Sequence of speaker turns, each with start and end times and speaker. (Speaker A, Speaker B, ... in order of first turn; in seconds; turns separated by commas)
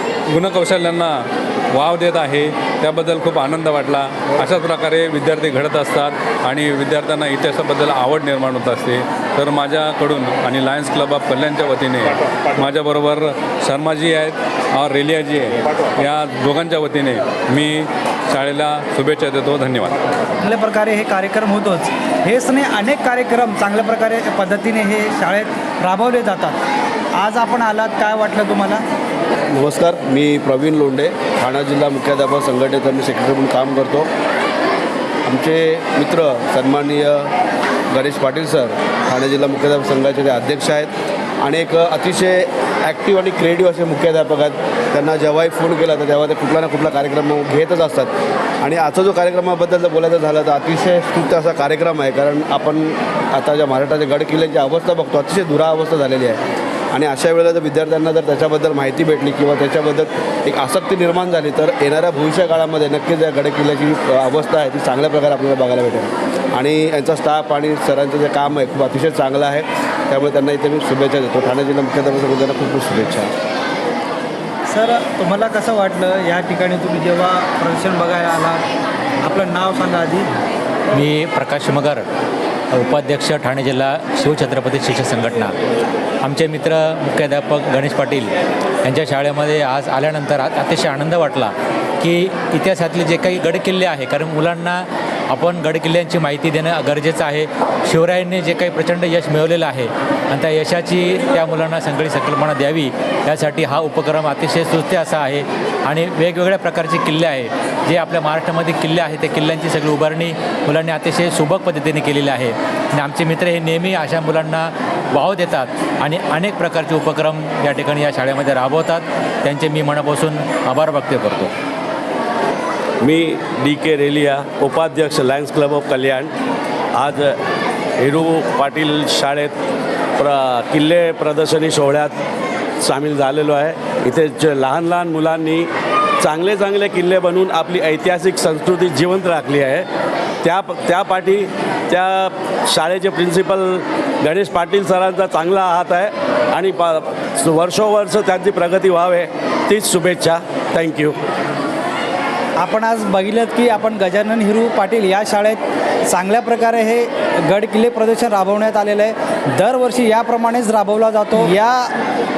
Speaker A: 0.3-20.0, Speaker B: 20.4-26.6, Speaker B: 27.1-28.8, Speaker C: 29.5-34.1, Speaker C: 35.2-37.3, Speaker C: 37.9-73.3, Speaker B: 74.7-78.6, Speaker B: 79.2-80.3, Speaker D: 80.9-82.1, Speaker D: 82.7-85.6, Speaker D: 86.2-121.5, Speaker E: 123.0-126.3, Speaker E: 126.9-127.4, Speaker E: 128.0-129.6, Speaker E: 130.2-132.2, Speaker E: 132.8-139.8, Speaker E: 140.4-151.2, Speaker B: 152.6-161.9